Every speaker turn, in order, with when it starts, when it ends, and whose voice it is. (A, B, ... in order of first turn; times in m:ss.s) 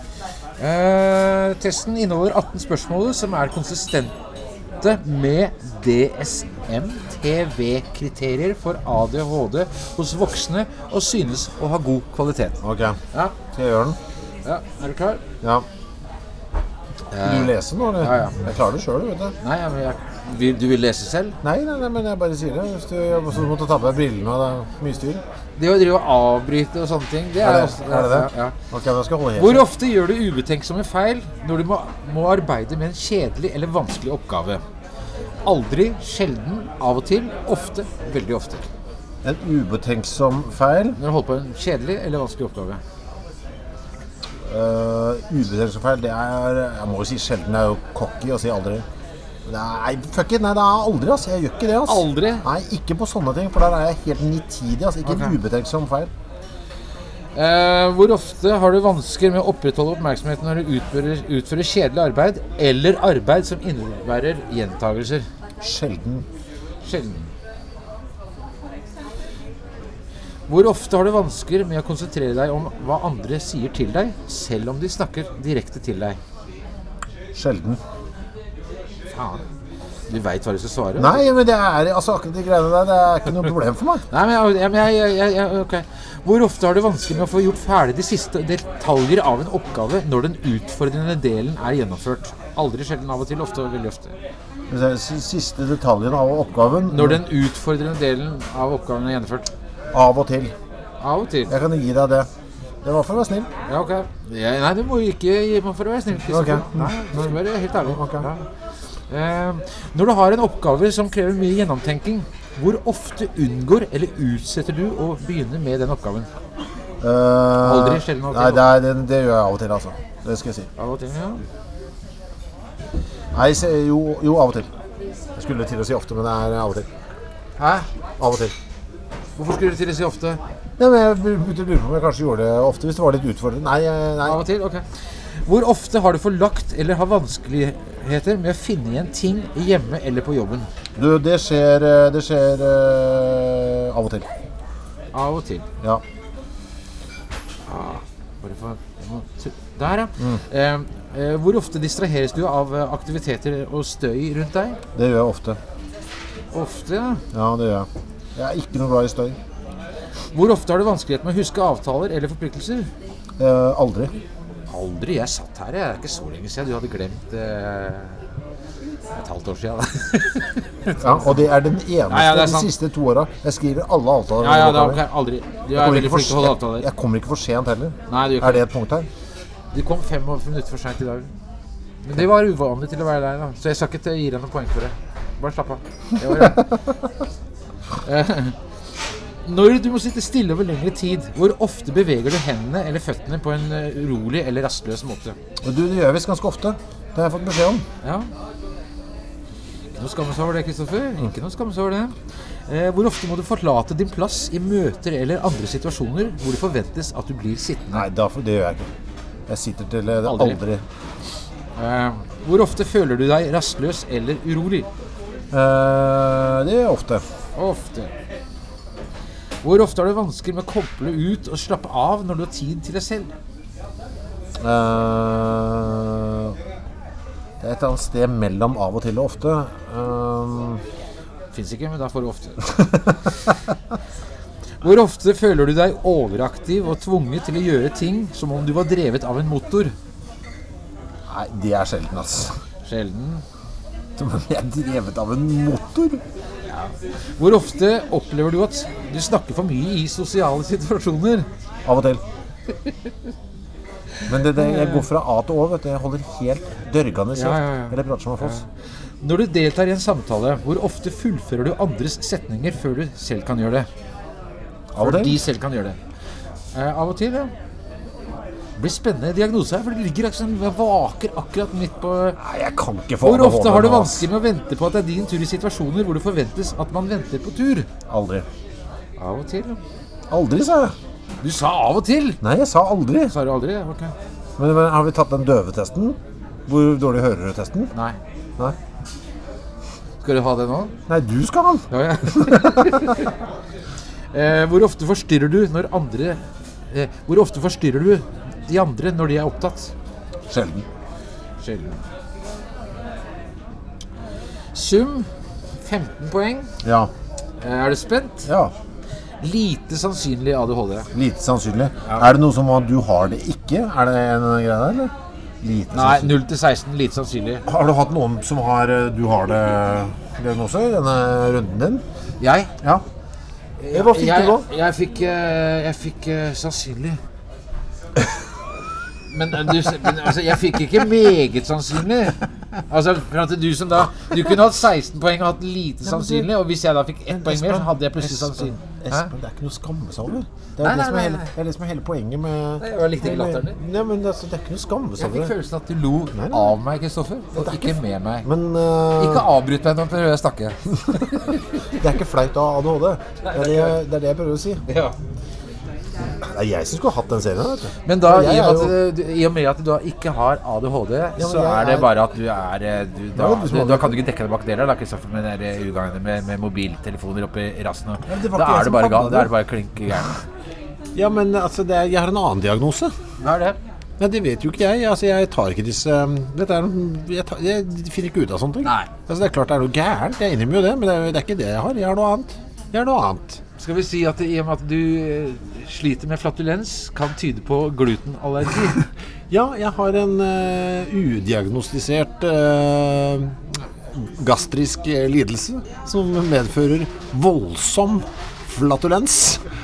0:00.6-0:04.1 A
0:04.8-0:12.6 A
0:12.6-0:13.0 B
0:13.5-0:14.0 B
0:14.4-0:15.2 A
0:17.1-0:18.4 A
0:17.2-0:19.3 B
0:19.4-0:21.4 A
0:21.4-0:25.2 B
0:25.6-0:28.5 A
0:27.4-0:29.7 B
0:29.4-0:34.6 A
0:35.4-0:38.6 A
0:39.2-0:41.0 B
0:41.0-0:42.8 A
0:44.5-0:48.8 B
0:49.5-0:56.1 B
0:51.8-0:52.4 A
0:55.0-0:55.4 A
0:57.3-1:05.3 A
1:05.6-1:06.2 B
1:06.8-1:07.3 A
1:10.5-1:16.2 A
1:17.3-1:17.8 B
1:19.1-1:19.4 A
1:20.1-1:21.2 A
1:21.0-1:24.0 B
1:24.1-1:34.2 A
1:34.7-1:37.2 B
1:36.9-1:39.5 A
1:39.9-1:40.5 B
1:41.0-1:41.5 A
1:41.5-1:42.3 B
1:42.8-1:43.5 B
1:43.6-1:48.4 A
1:46.3-1:48.3 B
1:49.1-1:56.3 A
1:57.0-2:00.7 B
1:57.6-1:58.7 A
2:00.8-2:01.4 A
2:03.3-2:04.7 B
2:05.4-2:06.9 B
2:07.6-2:07.9 A
2:08.2-2:08.5 B
2:09.4-2:10.4 A
2:10.8-2:14.4 B
2:14.2-2:14.8 A
2:15.4-2:20.7 A
2:21.0-2:24.3 B
2:25.1-2:25.7 A
2:27.6-2:34.8 A
2:34.9-2:35.6 B
2:36.5-2:37.2 A
2:37.3-2:39.4 B
2:40.3-2:42.9 A
2:43.4-2:44.1 B
2:44.7-2:48.2 A
2:49.1-2:51.5 A
2:51.0-2:55.0 B
2:52.0-2:52.7 A
2:54.4-2:56.9 A
2:55.7-2:59.1 B
2:58.1-2:58.6 A
2:59.7-3:01.3 A
3:02.0-3:06.7 A
3:08.0-3:08.6 A
3:09.4-3:15.4 A
3:15.6-3:17.8 B
3:18.0-3:18.3 A
3:20.0-3:22.2 A
3:22.7-3:28.0 A
3:27.9-3:28.9 B
3:29.5-3:30.8 B
3:30.2-3:30.6 A
3:31.8-3:34.9 A
3:35.5-3:37.2 B
3:37.6-3:38.1 A
3:39.6-3:43.3 A
3:44.6-3:46.6 B
3:47.6-3:50.8 B
3:51.5-3:52.6 A
3:52.8-3:53.6 B
3:54.8-3:59.9 A
4:01.3-4:02.6 B
4:02.8-4:03.4 A
4:04.2-4:06.2 B
4:06.7-4:11.5 A
4:11.8-4:12.2 B
4:14.2-4:18.6 B
4:14.5-4:15.0 A
4:17.4-4:18.6 A
4:19.2-4:23.9 A
4:24.9-4:25.4 B
4:24.9-4:26.0 A
4:26.7-4:27.5 A
4:28.8-4:32.4 A
4:32.4-4:34.2 B
4:33.2-4:37.9 A
4:38.1-4:38.4 B
4:39.2-4:39.8 A
4:40.3-4:40.9 B
4:41.4-4:42.4 A
4:42.4-4:43.3 B
4:43.3-4:44.1 A
4:44.6-4:47.9 B
4:47.9-4:48.2 A
4:50.2-4:50.9 A
4:51.1-4:53.2 B
4:51.9-4:53.3 A
4:54.3-4:59.9 A
5:00.5-5:00.8 B
5:01.6-5:02.0 A
5:04.7-5:05.3 A
5:05.8-5:06.7 A
5:06.8-5:07.1 B
5:07.6-5:08.5 A
5:08.4-5:08.7 B
5:09.4-5:11.1 A
5:11.1-5:16.3 B
5:15.9-5:17.6 A
5:17.6-5:22.0 B
5:22.4-5:22.7 A
5:23.8-5:27.2 A
5:23.9-5:24.7 B
5:29.3-5:39.3 A
5:36.1-5:36.5 B
5:37.3-5:45.6 B
5:40.8-5:41.5 A
5:42.8-5:43.8 A
5:45.2-5:48.5 A
5:46.3-5:46.8 B
5:47.5-5:49.5 B
5:49.2-5:51.6 A
5:52.0-5:54.8 B
5:53.4-5:54.0 A
5:54.9-5:55.2 A
5:56.4-5:58.9 B
5:58.0-6:10.4 A
6:01.4-6:02.1 B
6:03.3-6:04.2 B
6:08.2-6:09.5 B
6:11.1-6:13.1 B
6:13.4-6:13.8 A
6:14.2-6:23.6 B
6:18.8-6:19.1 A
6:23.8-6:29.0 A
6:29.5-6:33.6 B
6:34.1-6:39.6 B